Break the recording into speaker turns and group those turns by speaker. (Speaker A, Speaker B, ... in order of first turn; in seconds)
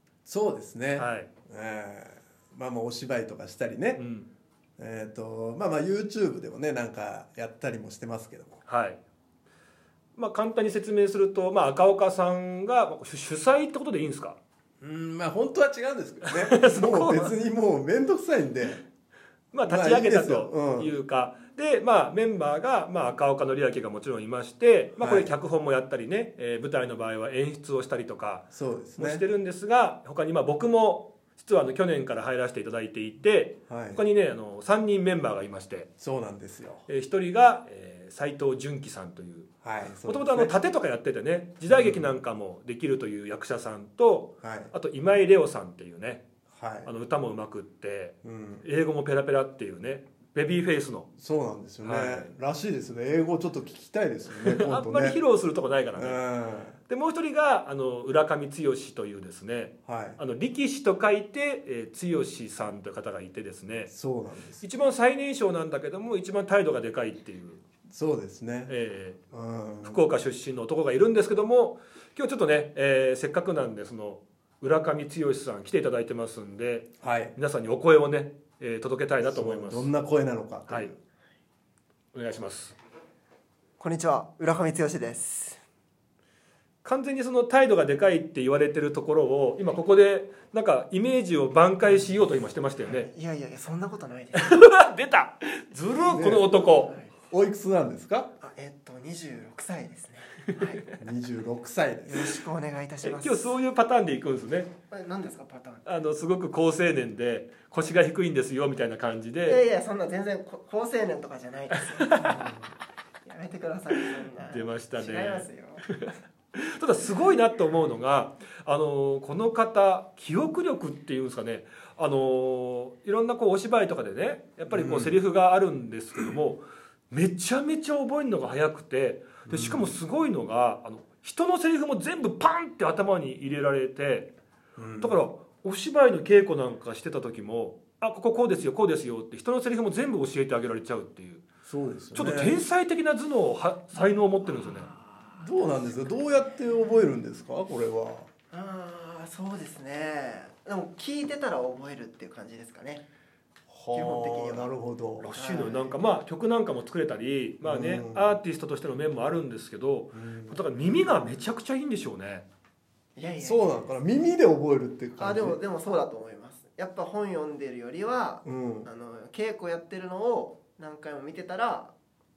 Speaker A: 0.2-4.0, 4.8-8.6, 14.8-18.8, 19.6-20.9, 25.0-25.3, 28.5-29.2, 33.7-34.0, 36.0-36.9, 39.6-40.5, 41.7-42.1, 44.4-44.7, 46.5-46.9, 48.2-48.6, 51.1-55.2, 55.9-56.8, 59.9-60.2, 63.9-64.7, 67.9-68.7, 69.3-70.0, 77.0-77.3, 79.2-81.0, 96.1-96.5, 97.3-98.3, 101.0-102.4, 112.2-112.6, 124.7-125.2, 129.5-129.9, 134.8-135.2, 141.7-142.6, 145.4-148.3, 153.7-155.3, 157.6-158.4, 160.1-160.6, 163.4-165.6, 168.4-168.9
Speaker B: 0.9-1.3, 4.0-4.3, 8.7-9.0, 10.2-14.4, 16.2-17.3, 19.5-35.9, 36.9-39.5, 40.0-46.2, 46.8-51.1, 51.8-52.3, 54.3-56.2, 56.9-63.9, 64.6-67.6, 68.7-69.2, 69.8-79.9, 82.1-82.8, 86.8-93.1, 94.3-96.9, 103.0-104.7, 105.8-109.6, 111.8-112.5, 114.0-134.3, 135.0-141.4, 142.1-144.9, 155.2-162.4
Speaker C: 83.8-85.6, 92.8-94.6, 96.7-97.1, 98.4-100.8, 102.1-103.5, 104.9-105.8, 109.5-112.3, 113.2-115.8, 144.4-147.0, 148.5-153.0, 153.9-154.7, 155.3-156.0, 163.2-163.7, 165.2-171.9